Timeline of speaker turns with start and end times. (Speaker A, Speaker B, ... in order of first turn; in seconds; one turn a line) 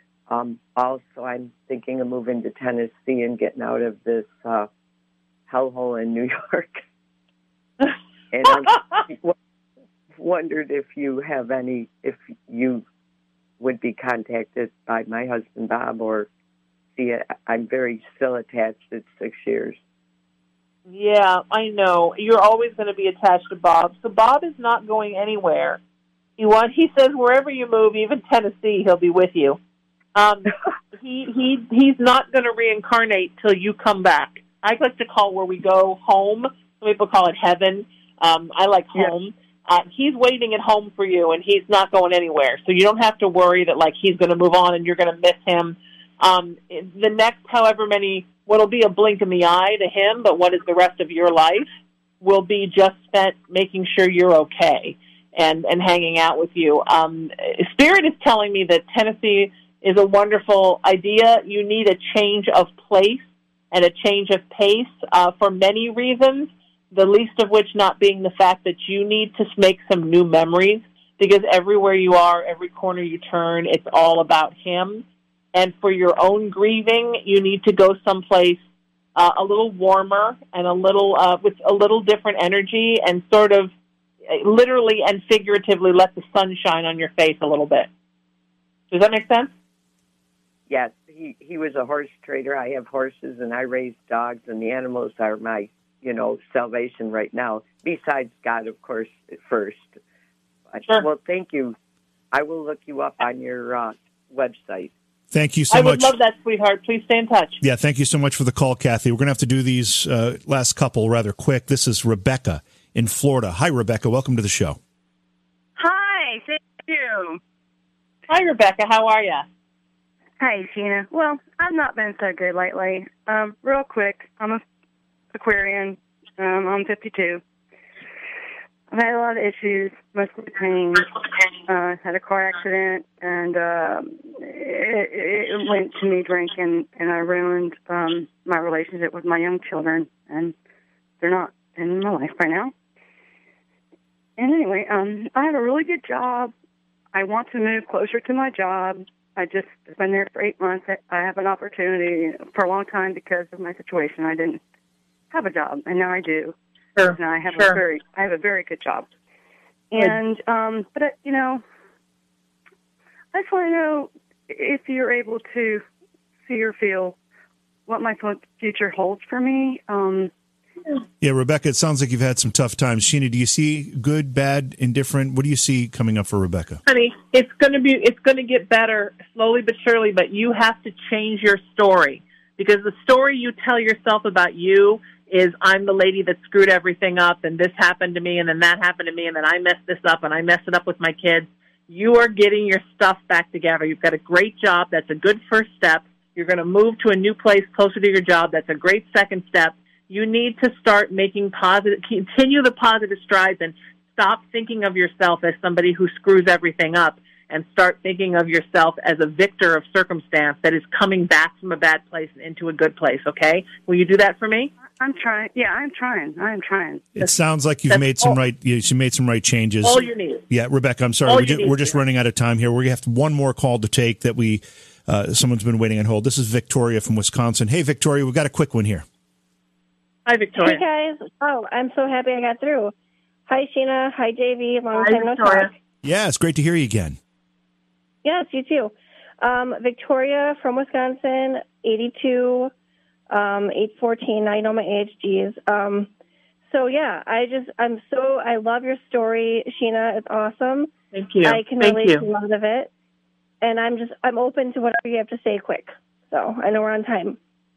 Speaker A: 0.3-4.7
Speaker A: 5.5-6.8
Speaker A: 8.3-9.3
Speaker A: 10.2-12.9
Speaker A: 13.6-16.3
Speaker A: 16.9-19.8
Speaker B: 20.9-25.8
Speaker B: 26.4-29.6
Speaker B: 30.1-51.7
Speaker B: 52.2-78.6
Speaker B: 79.2-83.7
Speaker B: 84.3-87.9
Speaker B: 88.9-89.5
Speaker A: 90.7-100.0
Speaker A: 100.7-101.8
Speaker A: 102.3-104.9
Speaker C: 105.3-106.1
Speaker B: 105.7-107.6
Speaker C: 107.6-114.8
Speaker D: 115.8-117.4
Speaker B: 118.3-119.4
Speaker D: 120.4-124.6
Speaker D: 125.3-127.4
Speaker D: 128.9-140.6
Speaker D: 141.2-142.7
Speaker D: 144.4-146.5
Speaker D: 147.1-154.6
Speaker D: 155.3-156.6
Speaker B: 156.9-157.8
Speaker D: 157.1-159.1
Speaker D: 159.9-161.6
Speaker D: 163.3-165.8
Speaker D: 166.4-167.2
Speaker D: 167.9-170.3
Speaker C: 171.2-176.8
Speaker B: 176.9-214.7
Speaker D: 215.0-217.1
Speaker C: 217.2-229.1
Speaker B: 217.9-218.4
Speaker B: 219.8-220.4
Speaker B: 221.2-222.0
Speaker B: 230.2-230.8
Speaker E: 230.6-232.9
Speaker E: 233.5-235.7
Speaker B: 234.9-235.7
Speaker C: 236.0-237.2
Speaker E: 238.2-242.7
Speaker E: 243.3-246.1
Speaker E: 246.7-250.9
Speaker B: 251.1-252.2
Speaker E: 251.4-252.9
Speaker E: 253.6-257.4